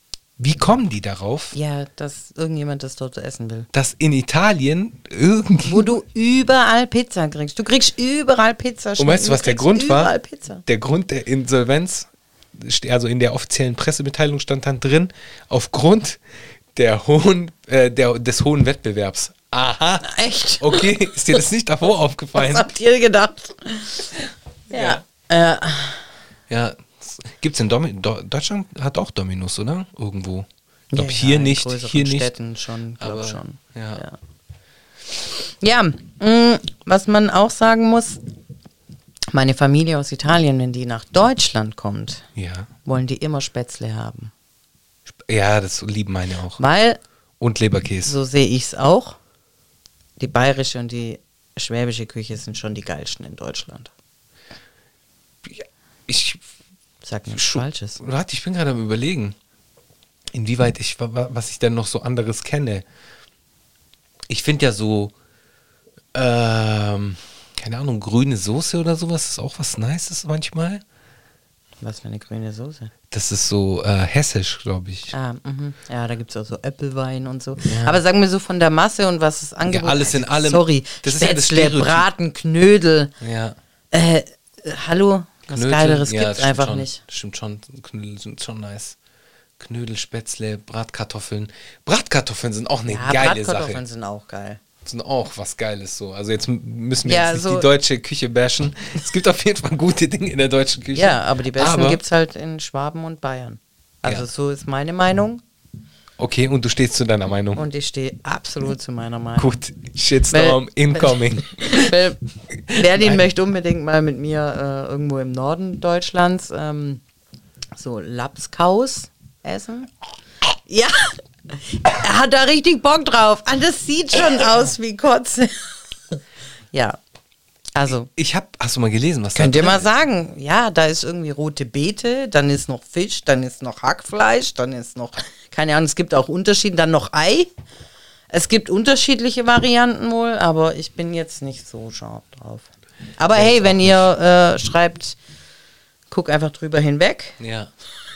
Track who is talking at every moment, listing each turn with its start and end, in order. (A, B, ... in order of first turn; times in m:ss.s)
0:00.4-0:01.5 A
0:01.5-0:03.7 B
0:03.7-0:05.9 A
0:05.6-0:10.6 B
0:09.0-0:10.1 A
0:10.6-0:16.2 A
0:16.7-0:22.7 A
0:20.0-0:21.3 B
0:22.3-0:24.2 B
0:24.7-0:26.0 B
0:24.7-0:25.0 A
0:26.5-0:32.3 A
0:30.9-0:34.2 B
0:33.0-0:34.0 A
0:35.6-0:38.2 B
0:39.3-0:42.3 B
0:42.4-0:42.7 A
0:42.8-0:44.3 B
0:45.1-0:46.6 A
0:46.6-0:47.0 B
0:47.4-0:48.2 A
0:48.0-0:49.2 B
0:50.2-0:53.9 B
0:55.4-0:56.4 A
0:57.0-0:58.0 B
0:57.3-0:59.4 A
1:00.3-1:02.8 A
1:04.3-1:05.1 A
1:06.1-1:10.8 A
1:11.8-1:12.9 B
1:13.1-1:15.1 A
1:15.1-1:23.1 B
1:17.6-1:18.0 A
1:19.7-1:22.0 A
1:23.2-1:23.6 A
1:23.9-1:27.0 B
1:25.5-1:29.0 A
1:29.6-1:33.8 A
1:32.9-1:34.6 B
1:34.8-1:42.0 A
1:37.0-1:37.7 B
1:40.9-1:45.4 B
1:46.2-1:47.6 A
1:47.5-1:49.6 B
1:49.4-1:52.0 A
1:50.3-1:57.0 B
1:52.7-1:53.2 A
1:57.8-1:59.9 B
2:00.7-2:05.5 B
2:06.7-2:07.0 B
2:07.7-2:08.1 B
2:07.9-2:09.9 A
2:09.3-2:17.5 B
2:18.3-2:25.2 B
2:23.3-2:24.0 A
2:26.1-2:27.4 B
2:27.4-2:27.7 A